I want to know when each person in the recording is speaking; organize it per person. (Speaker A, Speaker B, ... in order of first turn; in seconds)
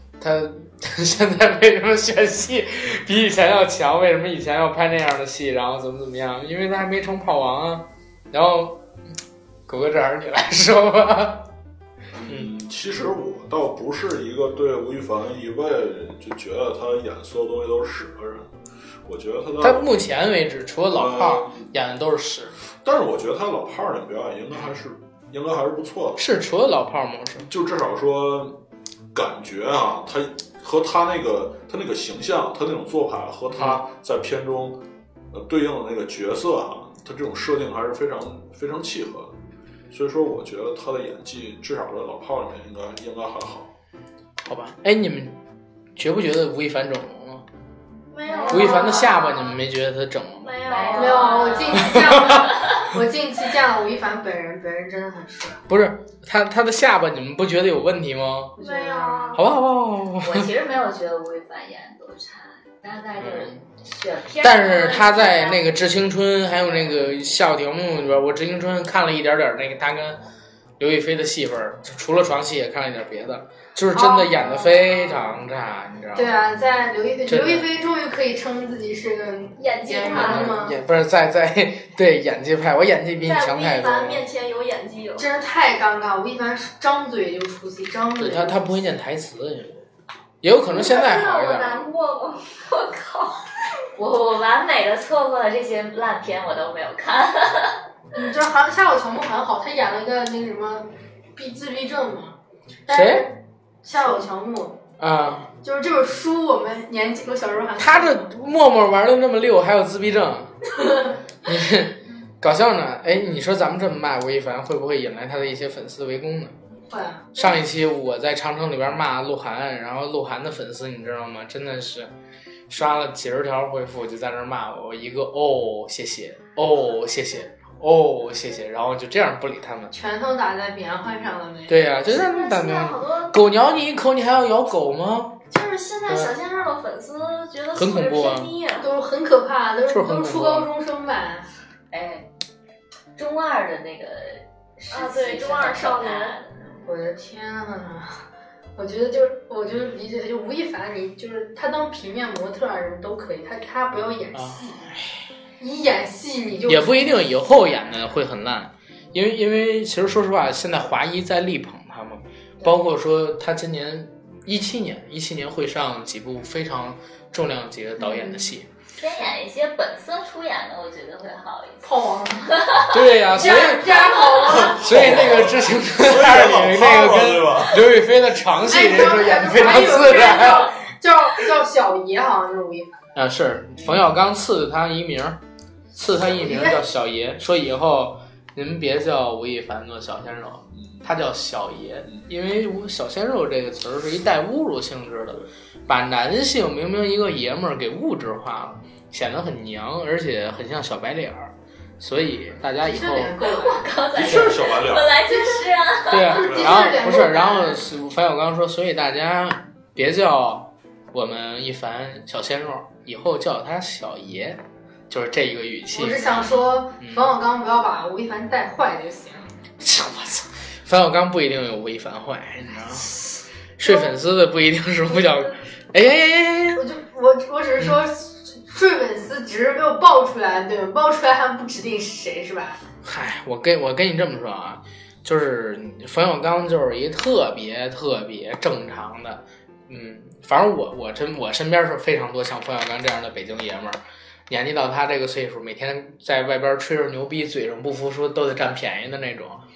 Speaker A: 0.2-8.8, 9.7-11.5, 19.6-22.6, 26.2-27.5, 33.5-33.9, 44.4-45.4, 46.0-47.4, 48.5-50.6, 51.8-52.5, 55.7-58.5, 59.3-60.5, 63.2-63.6, 64.4-70.2, 70.8-76.3, 77.2-77.7, 80.1-84.2, 88.2-89.8, 90.4-91.8, 102.9-103.3, 105.0-105.5, 107.8-110.5, 111.4-116.5, 117.3-122.1, 122.7-129.9, 131.7-135.4, 136.1-136.3, 137.7-138.5, 139.9-140.7, 154.3-155.3, 156.7-168.7, 172.9-180.7, 183.1-185.4, 185.9-203.3, 206.1-217.3, 219.8-223.1, 223.8-226.8, 233.0-249.6
Speaker B: 12.2-18.5, 19.1-19.9, 20.9-21.7, 22.8-26.2, 27.4-28.6, 29.1-34.8, 35.3-39.3, 39.9-43.7, 174.7-177.9, 204.1-205.2, 206.4-206.8
Speaker C: 48.1-49.5, 50.4-51.8, 58.6-59.4, 79.6-80.5, 83.2-85.3, 90.7-93.5, 132.1-133.4, 135.5-138.9, 144.9-146.4
Speaker D: 48.3-49.1, 50.9-55.6, 58.6-59.4, 73.9-74.8, 76.1-80.7, 85.2-88.6, 98.1-104.8, 105.6-108.3, 110.8-111.1, 116.9-117.6, 129.9-131.9, 138.8-141.4, 146.8-148.2, 148.8-154.8, 155.6-158.0, 168.0-168.4, 171.8-172.5, 173.3-174.9, 178.6-183.1, 186.2-186.8, 202.8-204.0, 205.3-205.7, 206.2-207.9, 215.9-219.5, 223.8-224.1, 226.8-232.8
Speaker E: 50.6-52.8, 60.2-65.7, 93.9-97.8, 141.9-142.3, 143.1-146.9, 169.0-171.9, 172.5-174.7, 180.0-180.6, 203.4-206.4